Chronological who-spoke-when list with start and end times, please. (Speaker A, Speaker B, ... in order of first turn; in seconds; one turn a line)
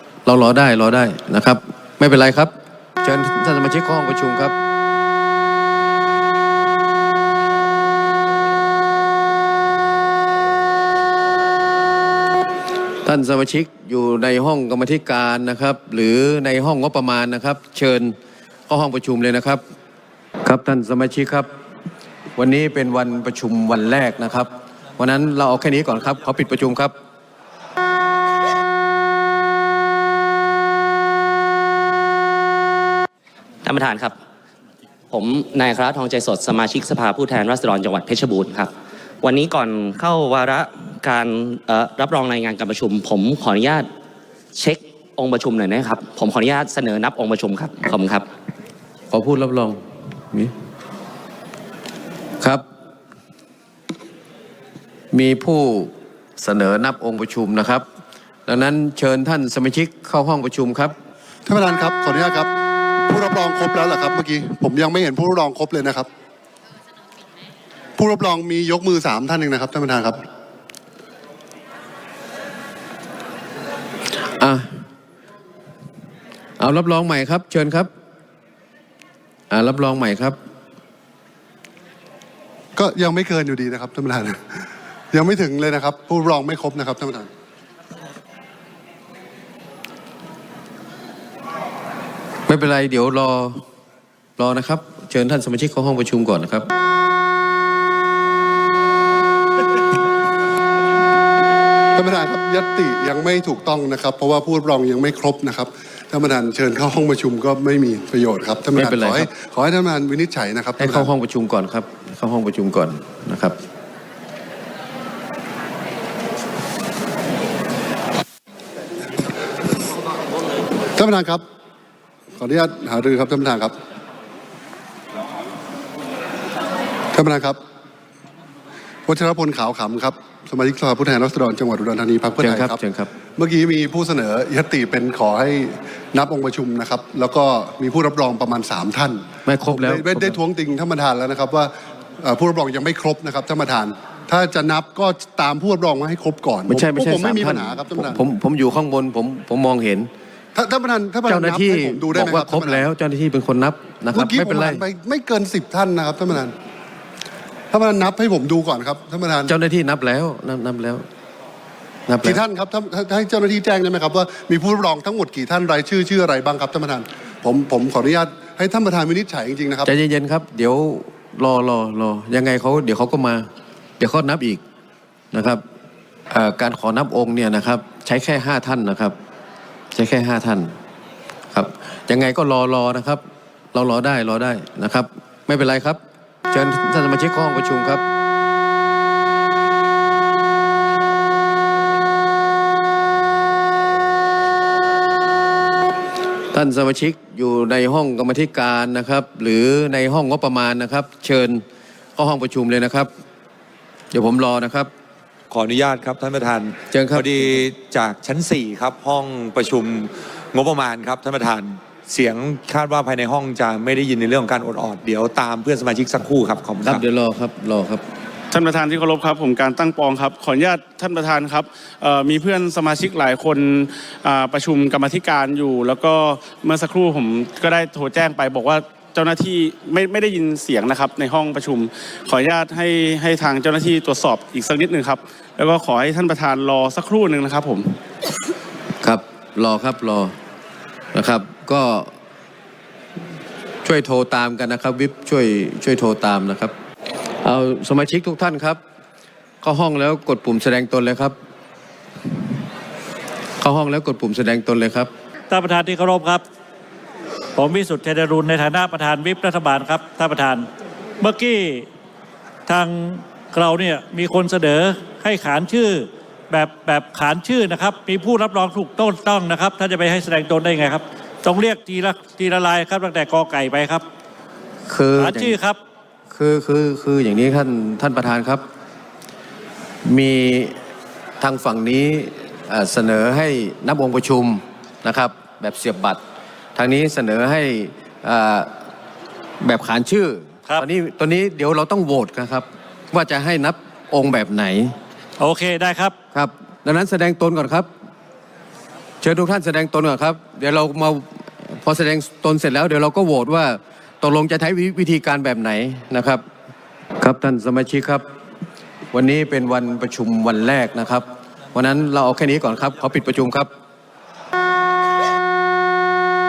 Speaker A: 0.3-4.5
Speaker A: 13.0-18.2
Speaker A: 18.7-19.6
Speaker A: 20.4-21.5
Speaker A: 22.4-26.9
Speaker B: 33.6-34.1
Speaker B: 35.1-43.9
Speaker B: 44.5-48.3
Speaker A: 49.1-49.8
Speaker A: 55.1-57.9
Speaker A: 58.5-60.9
Speaker C: 61.5-62.5
Speaker C: 63.1-66.1
Speaker C: 68.0-70.2
Speaker A: 74.4-74.7
Speaker A: 76.6-77.9
Speaker A: 79.5-80.4
Speaker C: 82.8-84.4
Speaker C: 85.1-87.3
Speaker A: 92.5-93.6
Speaker A: 94.4-96.7
Speaker C: 102.0-111.1
Speaker A: 108.7-109.3
Speaker A: 110.8-113.6
Speaker C: 121.0-121.4
Speaker C: 122.4-123.8
Speaker C: 127.1-127.6
Speaker C: 129.1-132.8
Speaker A: 132.4-133.1
Speaker C: 133.4-148.2
Speaker A: 139.5-140.4
Speaker A: 146.7-150.1
Speaker C: 150.6-152.9
Speaker A: 151.3-154.8
Speaker C: 154.1-156.6
Speaker C: 157.7-159.5
Speaker A: 159.5-161.1
Speaker A: 162.1-162.4
Speaker C: 162.2-169.9
Speaker A: 169.8-173.5
Speaker A: 174.0-174.6
Speaker A: 175.3-175.6
Speaker A: 176.3-179.2
Speaker A: 179.9-180.7
Speaker A: 181.5-188.1
Speaker A: 196.5-201.6
Speaker A: 202.2-203.1
Speaker A: 204.1-204.9
Speaker D: 205.5-217.0
Speaker A: 206.9-207.6
Speaker A: 216.8-218.0
Speaker E: 218.5-237.9
Speaker A: 239.0-240.3
Speaker A: 241.1-242.1
Speaker A: 243.8-246.7
Speaker A: 247.4-248.8
Speaker A: 249.6-251.3
Speaker A: 253.6-255.1
Speaker F: 255.5-256.4
Speaker F: 257.6-260.7
Speaker F: 261.2-261.9
Speaker F: 262.7-274.1
Speaker A: 274.9-275.6
Speaker F: 275.2-275.8
Speaker A: 276.3-278.6
Speaker A: 280.0-280.8
Speaker A: 281.4-286.2
Speaker A: 286.8-288.7
Speaker A: 289.6-295.0
Speaker F: 295.4-296.1
Speaker A: 296.3-297.9
Speaker A: 299.2-306.4
Speaker A: 307.2-308.2
Speaker A: 309.1-313.7